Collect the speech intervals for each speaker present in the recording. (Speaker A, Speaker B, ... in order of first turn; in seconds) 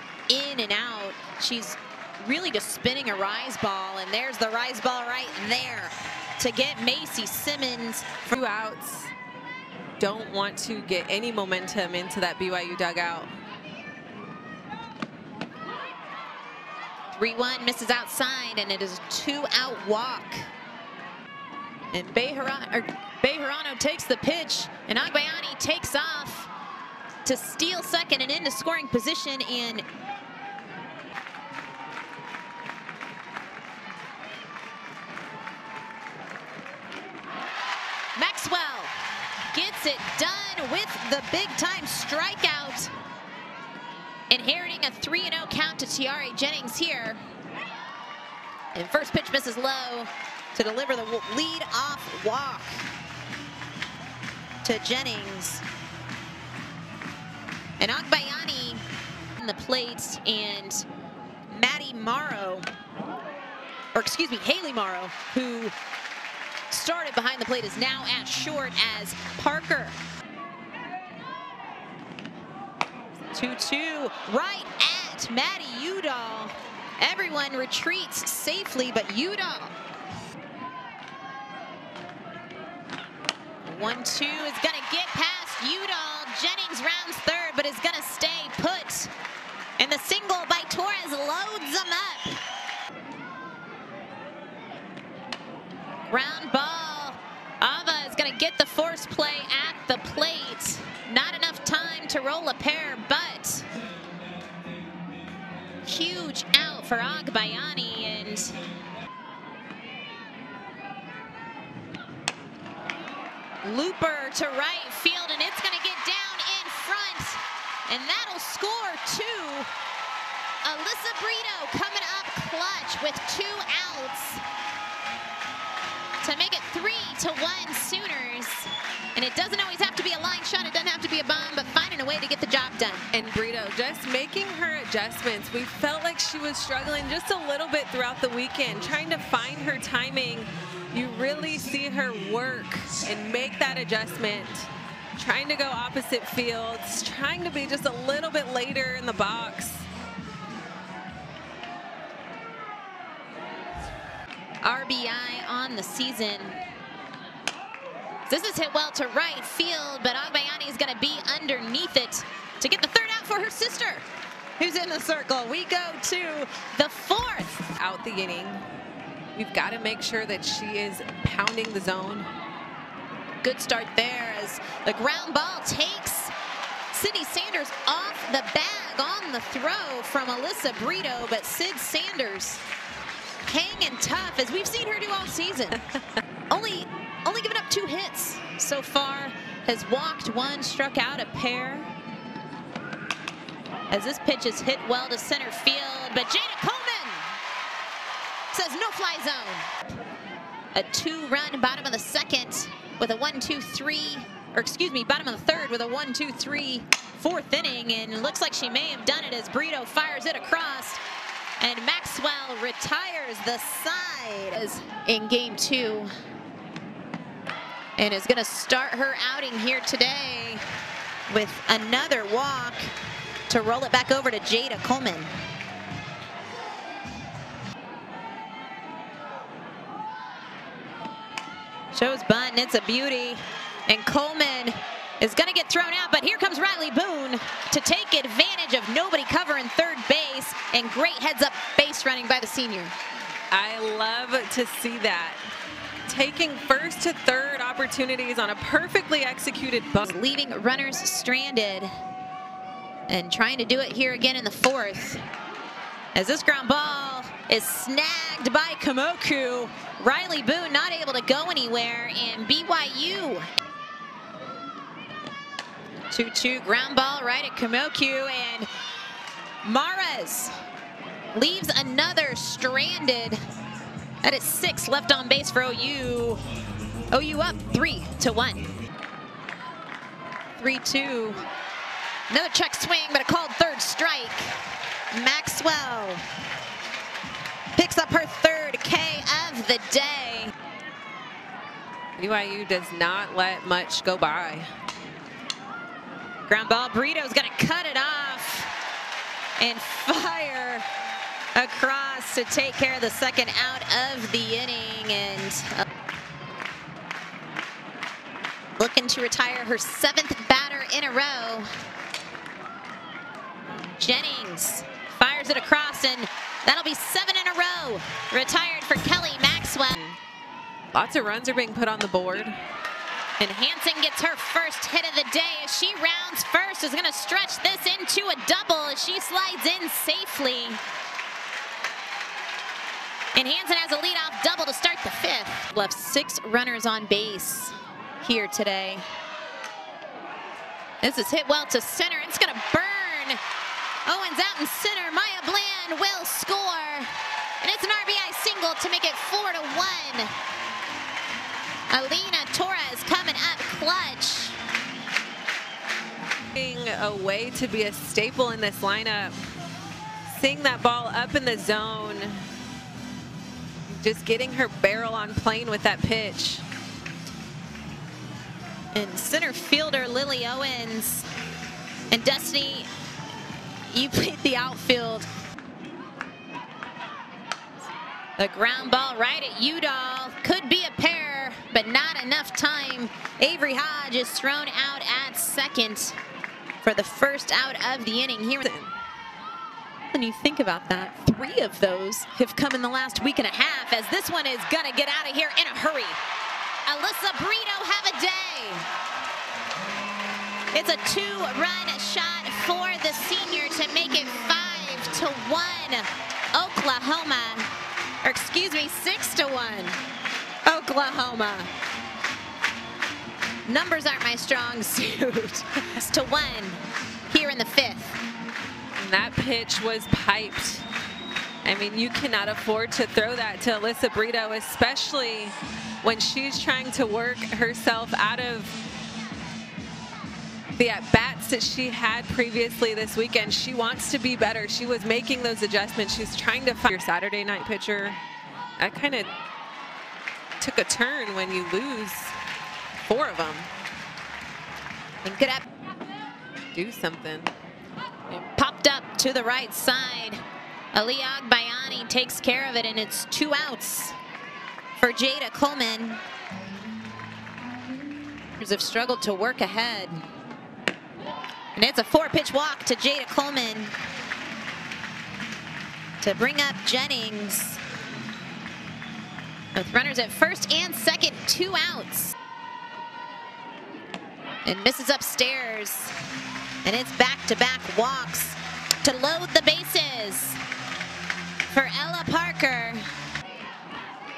Speaker A: 0.3-8.3, 17.1-20.5, 21.9-26.5, 27.2-29.8, 38.1-38.9, 39.5-42.9, 44.3-47.2, 48.7-52.8, 54.6-55.6, 57.8-58.8, 59.4-60.9, 61.5-62.7, 63.9-65.7, 66.7-70.0, 73.3-79.8, 83.6-89.1, 89.8-92.4, 96.1-103.7, 105.8-108.5, 113.6-119.7, 120.6-124.4, 126.2-133.1, 154.6-156.6, 158.3-164.1, 164.6-167.6, 173.4-176.3, 176.9-182.6, 183.5-185.8, 186.5-191.9, 193.9-197.3, 198.5-199.7, 200.7-211.0, 211.6-216.1, 218.0-220.6, 221.3-222.9, 223.5-225.3, 231.9-242.9, 250.1-251.9, 253.1-255.2, 256.1-263.5, 266.1-268.7, 269.6-270.5, 271.3-273.4, 274.2-276.4, 277.1-278.7, 280.6-281.4, 282.3-284.6, 285.1-286.2, 287.7-290.5, 296.5-298.7, 299.6-300.9, 301.5-305.8, 308.8-311.7, 314.0-320.2, 323.4-330.8, 333.3-339.0, 341.0-343.4, 344.1-347.1, 347.6-350.3, 351.9-354.6, 368.9-371.3, 372.1-372.9, 373.9-375.3, 378.4-386.2, 386.8-388.7, 390.1-396.2, 396.9-398.9, 400.7-407.7, 408.2-410.0, 410.6-411.7, 413.6-418.2, 445.2-445.6, 448.3-450.4, 450.9-454.2, 455.0-456.2, 458.6-460.2, 461.7-463.9, 466.2-467.8, 469.7-472.3, 474.6-476.1, 476.8-480.6, 481.7-483.1
Speaker B: 8.3-9.1, 10.0-13.3, 133.1-149.9, 167.8-168.6, 169.3-172.3, 243.5-245.4, 246.1-250.1, 292.2-294.7, 320.9-322.6, 356.5-359.3, 360.3-362.4, 363.9-366.6, 388.6-388.9, 419.0-420.9, 421.6-428.8, 430.8-438.2, 438.8-439.3, 440.6-442.3, 443.1-443.7, 446.7-447.5